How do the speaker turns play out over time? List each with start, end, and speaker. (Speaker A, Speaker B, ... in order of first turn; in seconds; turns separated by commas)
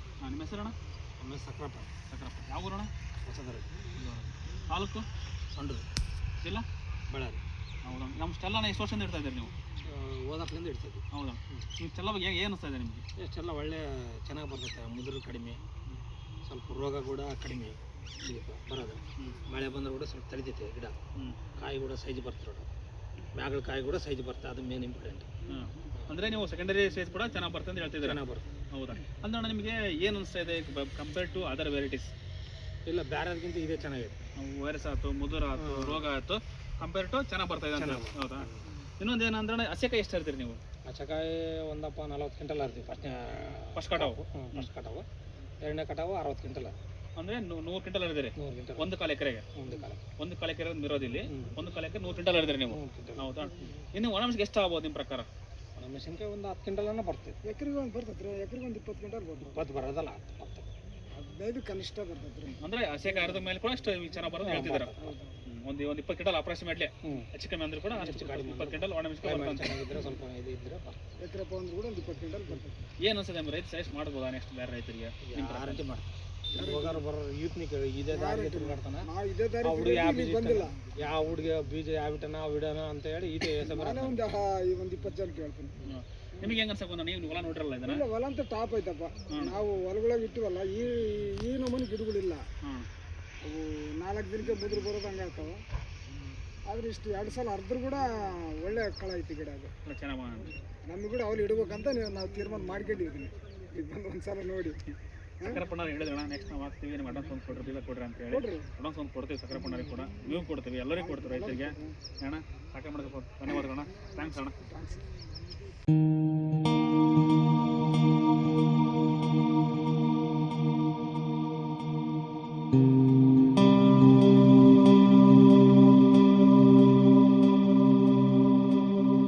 Speaker A: 0.2-0.7, Speaker B: 1.2-1.9, Speaker A: 2.1-2.9, Speaker B: 3.2-3.9, Speaker A: 3.9-5.1, Speaker B: 5.5-5.8, Speaker B: 7.1-7.4, Speaker A: 7.8-9.5, Speaker B: 9.8-11.7, Speaker A: 11.1-13.1, Speaker B: 13.2-15.6, Speaker B: 16.4-21.0, Speaker A: 21.1-21.4, Speaker B: 21.5-22.7, Speaker B: 23.3-25.3, Speaker A: 25.4-32.1, Speaker B: 25.9-26.2, Speaker B: 28.0-28.4, Speaker B: 32.9-34.2, Speaker A: 34.4-40.6, Speaker B: 35.6-36.0, Speaker B: 37.7-38.7, Speaker B: 40.9-45.1, Speaker A: 43.7-44.7, Speaker B: 45.6-46.7, Speaker A: 47.1-49.4, Speaker B: 48.4-48.9, Speaker B: 49.5-50.0, Speaker A: 50.2-55.3, Speaker B: 51.3-51.5, Speaker B: 52.7-53.3, Speaker B: 55.8-57.4, Speaker C: 57.4-59.6, Speaker B: 59.4-60.7, Speaker C: 61.1-62.6, Speaker A: 62.6-69.8, Speaker B: 64.4-65.2, Speaker C: 65.0-65.4, Speaker B: 67.0-67.3, Speaker B: 67.9-71.0, Speaker C: 71.2-72.9, Speaker A: 73.0-75.8, Speaker B: 75.2-79.1, Speaker C: 76.5-77.0, Speaker C: 78.1-80.7, Speaker B: 79.6-84.2, Speaker C: 83.5-85.8, Speaker A: 85.8-88.0, Speaker C: 87.8-92.4, Speaker A: 89.3-89.6, Speaker C: 93.4-95.6, Speaker C: 96.7-99.7, Speaker A: 99.8-100.5, Speaker C: 100.8-104.8, Speaker A: 105.5-114.6, Speaker C: 108.3-108.7, Speaker C: 110.9-112.0, Speaker C: 114.6-115.1